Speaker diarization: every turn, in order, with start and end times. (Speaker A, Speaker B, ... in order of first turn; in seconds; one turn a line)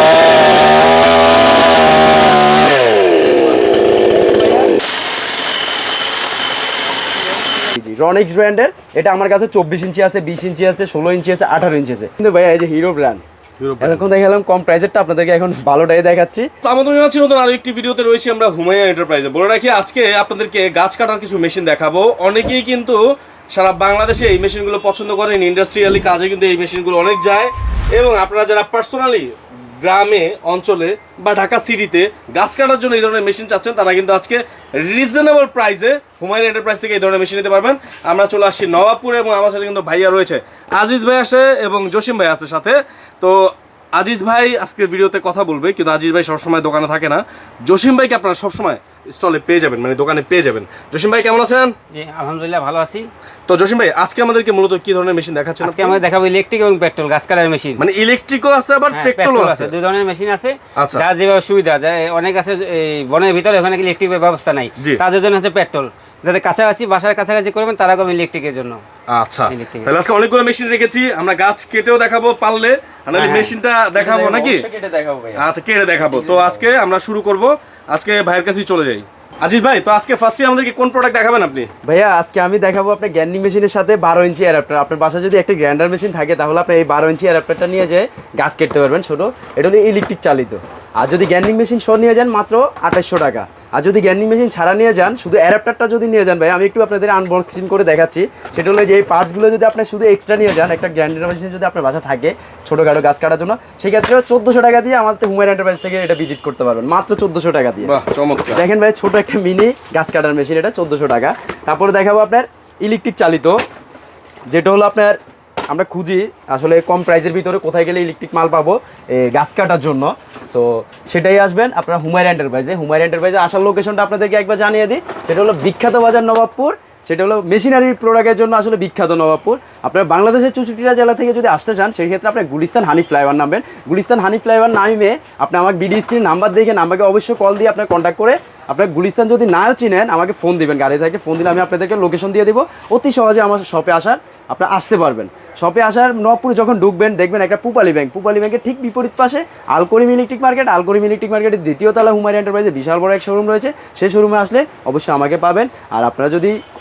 Speaker A: 7.5-13.2
Speaker B: 13.6-14.1
Speaker A: 13.8-16.5
Speaker B: 16.6-23.0
Speaker B: 23.5-51.7
Speaker C: 51.9-53.1
Speaker B: 53.5-56.0
Speaker C: 55.6-57.8
Speaker B: 57.8-59.7
Speaker C: 58.9-68.8
Speaker B: 60.7-61.0
Speaker B: 69.1-74.7
Speaker C: 69.5-69.9
Speaker C: 73.1-73.5
Speaker A: 73.9-75.4
Speaker B: 75.4-81.7
Speaker A: 81.8-108.0
Speaker B: 107.8-108.6
Speaker A: 108.5-113.6
Speaker A: 114.5-156.5